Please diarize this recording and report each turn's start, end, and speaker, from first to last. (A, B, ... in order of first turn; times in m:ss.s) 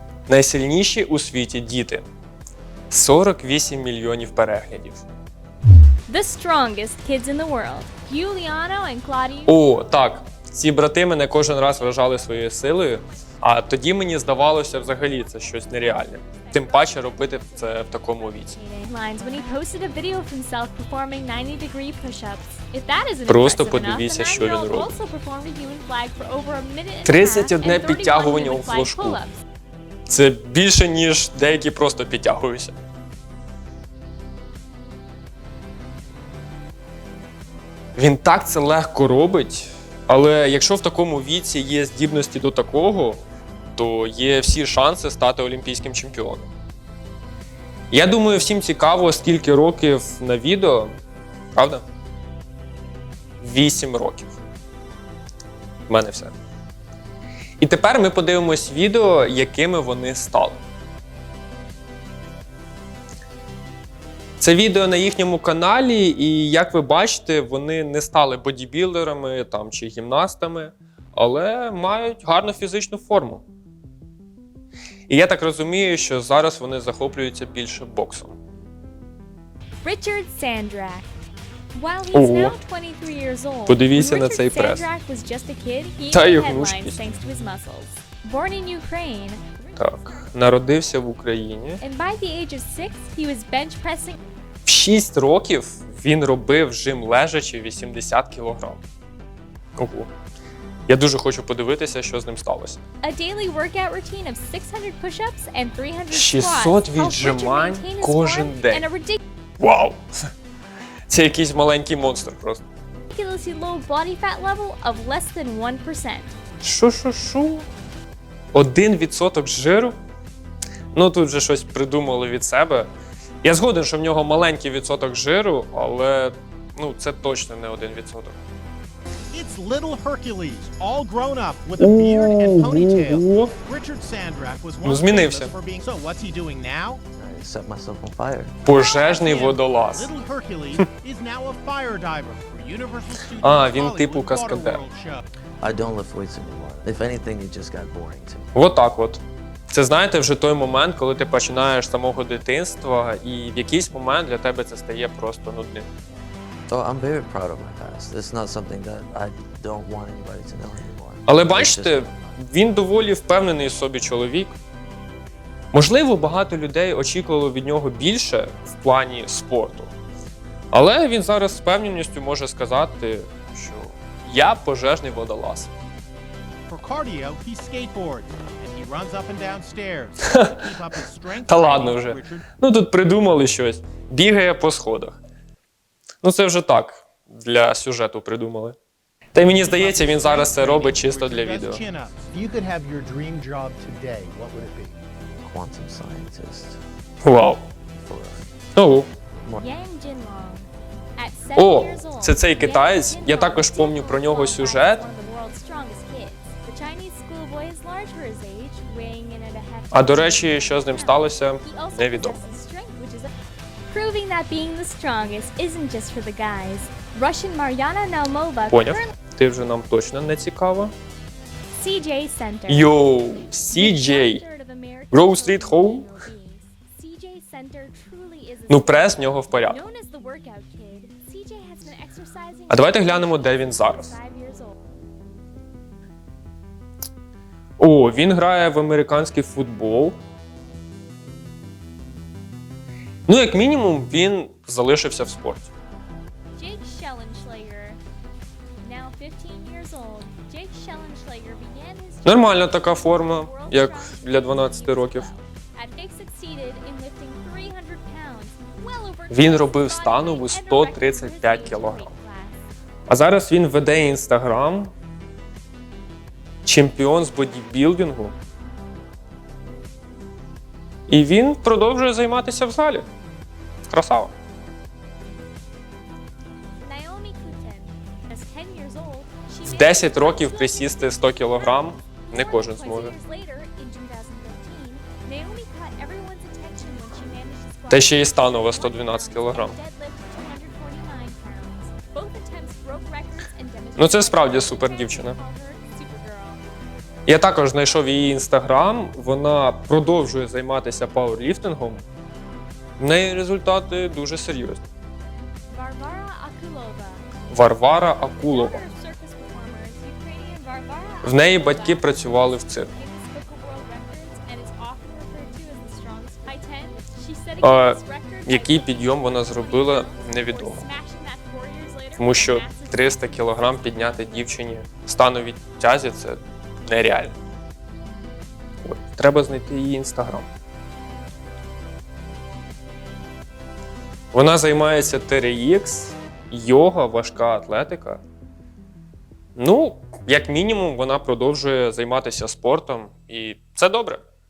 0:00.3-0:02.1 A
0:02.9-0:05.0 A
0:06.1-0:10.0 B
0:09.5-0:18.6 A
0:11.5-0:29.4 B
0:23.3-0:24.9 A
0:27.0-0:29.2 A
0:30.1-0:32.8 A
0:38.0-0:43.2 A
0:43.8-0:46.5 A
0:47.9-0:51.0 A
0:51.6-0:51.8 A
0:53.4-0:54.3 A
0:55.9-0:56.4 A
0:57.6-1:00.6 A
1:04.4-1:13.4 A
1:15.1-1:18.4 A
1:19.8-1:21.1 B
1:21.7-1:31.1 B
1:22.1-1:22.6 A
1:23.7-1:24.9 A
1:26.1-1:27.0 A
1:29.8-1:31.8 A
1:31.8-1:34.2 B
1:34.7-1:38.8 A
1:39.8-1:40.1 A
1:40.9-1:42.8 A
1:43.0-1:49.2 B
1:46.1-1:48.8 A
1:49.6-1:50.0 A
1:51.1-1:52.6 A
1:53.1-1:56.4 B
1:56.6-1:57.7 A
1:58.5-2:00.0 A
2:00.9-2:02.9 A
2:03.4-2:08.4 A
2:09.3-2:17.0 C
2:11.8-2:13.5 A
2:14.8-2:15.5 A
2:17.2-2:18.6 D
2:18.7-2:20.1 A
2:18.7-2:25.2 C
2:23.4-2:24.8 A
2:25.6-2:28.5 D
2:28.5-2:35.9 A
2:36.7-2:42.4 D
2:41.3-2:44.6 A
2:45.7-2:49.9 A
2:50.7-2:55.7 A
2:56.7-3:02.4 C
3:00.2-3:00.6 A
3:01.5-3:05.2 A
3:06.2-3:08.8 A
3:09.3-3:11.8 A
3:09.4-3:15.0 C
3:15.4-3:16.8 D
3:17.2-3:17.6 A
3:17.9-3:18.5 D
3:18.8-3:19.1 A
3:19.6-3:33.3 B
3:21.6-3:25.0 A
3:29.9-3:32.4 A
3:33.9-3:39.1 B
3:38.7-3:40.9 A
3:41.8-3:43.0 B
3:42.7-3:44.4 A
3:43.7-3:54.8 B
3:45.1-3:46.1 A
3:48.7-3:49.8 A
3:52.7-3:54.2 A
3:57.8-4:00.2 A
4:03.3-4:05.7 A
4:06.6-4:08.0 B
4:08.8-4:22.6 B
4:12.2-4:15.3 A
4:19.3-4:22.1 A
4:23.1-4:24.9 A
4:26.6-4:28.4 A
4:31.1-4:33.0 A
4:33.9-4:34.3 A
4:36.8-4:56.6 B
4:39.6-4:43.2 A
4:47.9-4:49.8 A
4:54.0-4:55.4 A
4:57.3-5:02.0 A
5:03.0-5:04.8 A
5:05.7-5:07.2 B
5:07.5-5:08.8 A
5:08.4-5:24.6 B
5:11.2-5:12.9 A
5:17.6-5:20.8 A
5:22.2-5:27.3 A
5:28.8-5:30.5 A
5:34.3-5:38.2 A
5:39.6-5:44.2 A